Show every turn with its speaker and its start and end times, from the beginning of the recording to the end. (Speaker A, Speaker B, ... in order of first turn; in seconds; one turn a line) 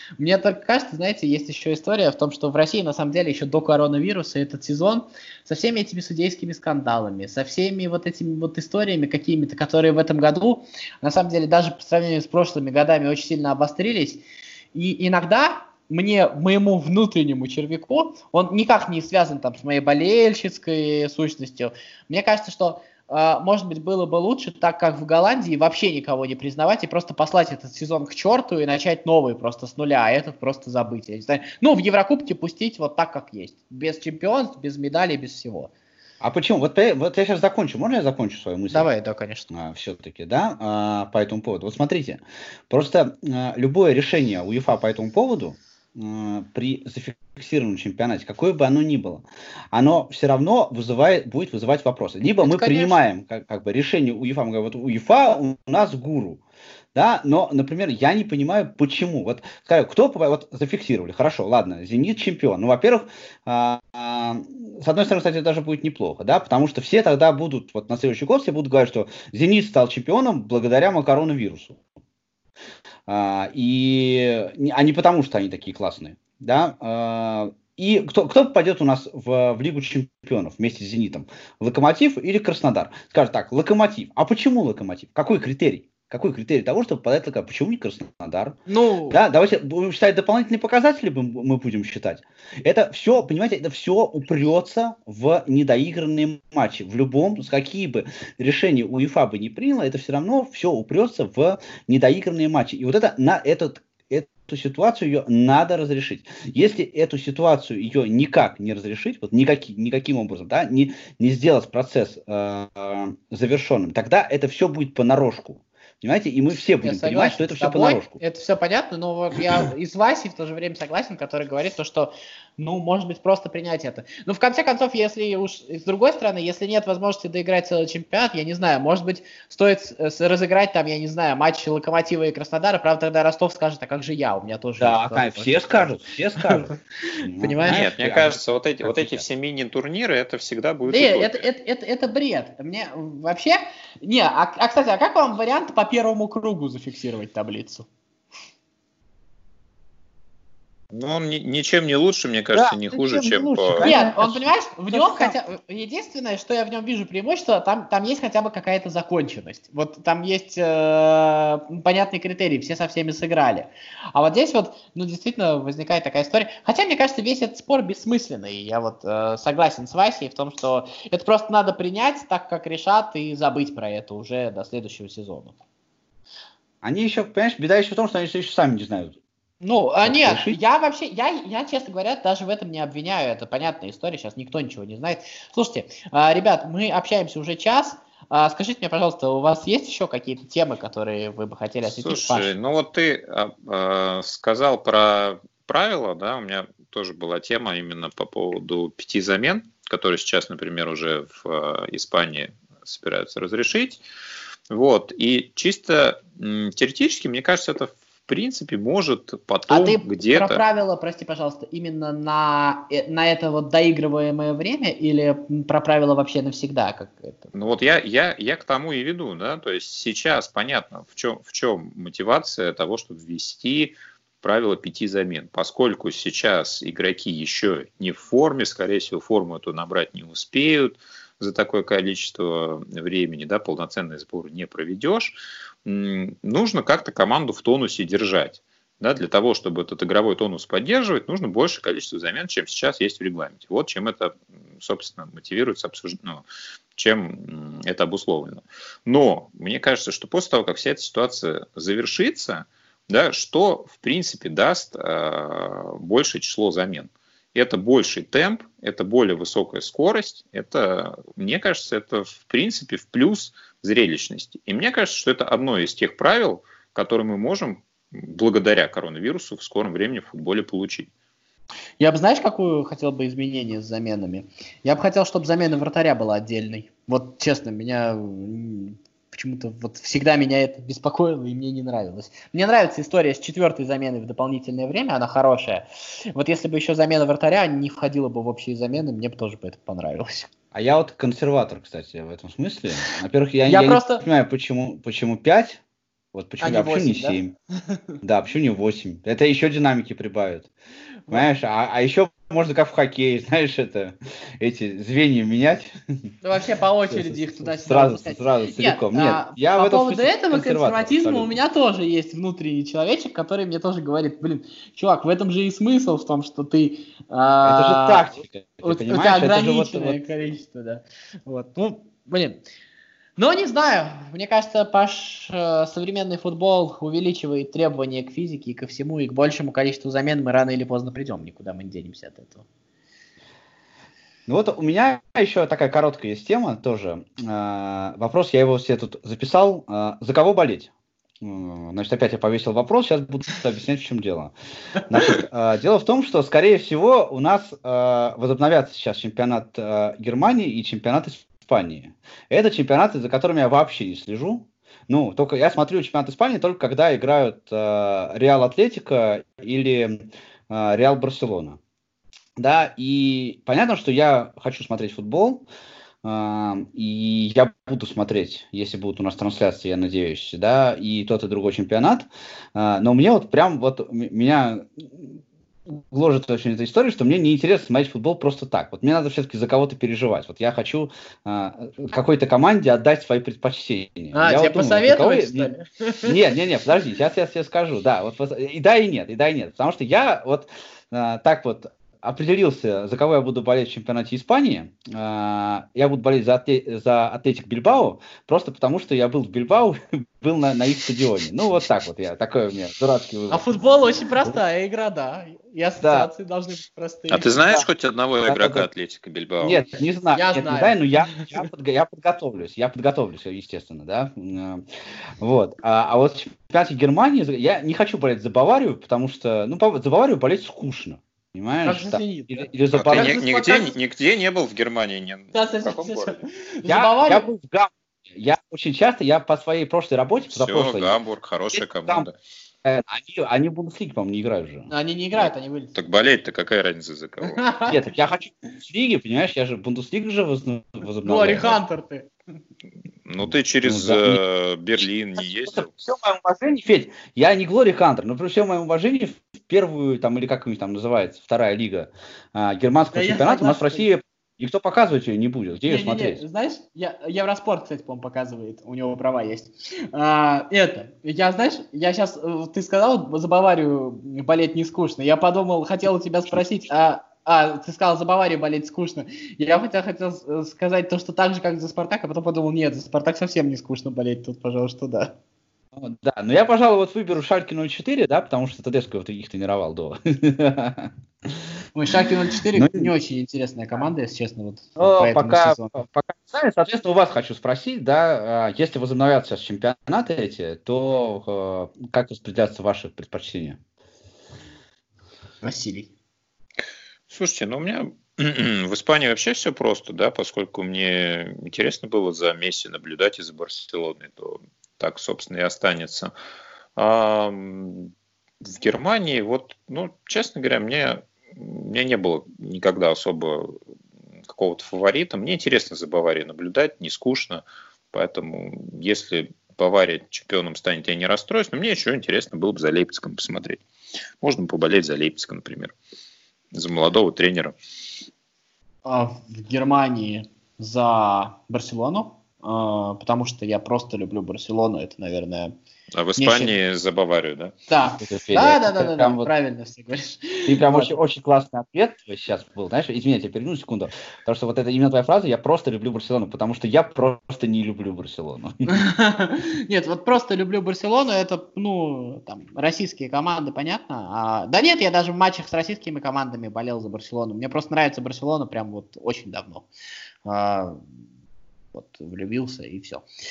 Speaker A: 0.2-14.2
Speaker A: 14.7-35.7
Speaker B: 36.2-38.9
Speaker A: 38.7-39.5
Speaker B: 39.5-56.4
Speaker A: 52.4-53.0
Speaker B: 56.9-71.8
Speaker B: 73.1-88.6
Speaker A: 88.7-89.2
Speaker B: 89.1-118.2
Speaker A: 116.8-135.9
Speaker B: 134.8-139.2
Speaker A: 137.1-137.9
Speaker C: 137.6-141.4
Speaker A: 140.9-147.9
Speaker C: 150.9-153.9
Speaker B: 152.5-155.4
Speaker A: 153.8-175.6
Speaker B: 176.8-179.2
Speaker A: 179.6-192.5
Speaker B: 180.0-180.6
Speaker C: 191.8-204.0
Speaker C: 204.7-210.6
Speaker A: 209.7-217.5
Speaker C: 217.5-271.1
Speaker A: 272.0-290.5
Speaker B: 290.7-295.8
Speaker A: 293.7-294.2
Speaker B: 296.3-297.5
Speaker A: 296.6-298.0
Speaker B: 298.2-300.7
Speaker B: 301.3-305.9
Speaker A: 306.4-322.6
Speaker B: 307.1-311.6
Speaker B: 317.6-320.2
Speaker A: 323.4-332.6
Speaker B: 334.5-361.8
Speaker B: 362.6-365.6
Speaker B: 366.2-385.7
Speaker A: 384.3-386.4
Speaker B: 386.2-403.6
Speaker A: 403.5-407.6
Speaker B: 406.0-406.3
Speaker C: 407.3-409.9
Speaker B: 408.4-408.9
Speaker B: 409.6-414.9
Speaker A: 410.3-411.6
Speaker B: 415.4-423.4
Speaker A: 421.8-423.9
Speaker C: 422.9-426.4
Speaker A: 425.5-427.5
Speaker B: 426.9-431.2
Speaker C: 430.5-432.4
Speaker B: 431.7-432.3
Speaker B: 432.8-434.9
Speaker A: 434.9-435.9
Speaker C: 435.9-437.6
Speaker A: 437.4-438.0
Speaker B: 437.9-441.8
Speaker A: 441.2-442.3
Speaker C: 443.2-445.9
Speaker B: 443.4-444.4
Speaker B: 445.6-456.4
Speaker A: 453.1-454.1
Speaker A: 455.9-475.4
Speaker B: 475.9-481.1
Speaker A: 481.9-485.8
Speaker B: 482.7-483.1
Speaker B: 485.0-493.8
Speaker A: 495.6-496.1
Speaker C: 497.3-506.3
Speaker C: 507.0-513.8
Speaker C: 514.5-523.8
Speaker C: 524.4-525.9
Speaker C: 526.7-527.7
Speaker A: 529.0-535.7
Speaker C: 536.1-537.7
Speaker A: 536.4-536.7
Speaker A: 537.9-541.1
Speaker B: 538.2-539.5
Speaker B: 540.6-548.9
Speaker A: 548.9-559.9
Speaker A: 560.5-561.0
Speaker A: 561.9-563.2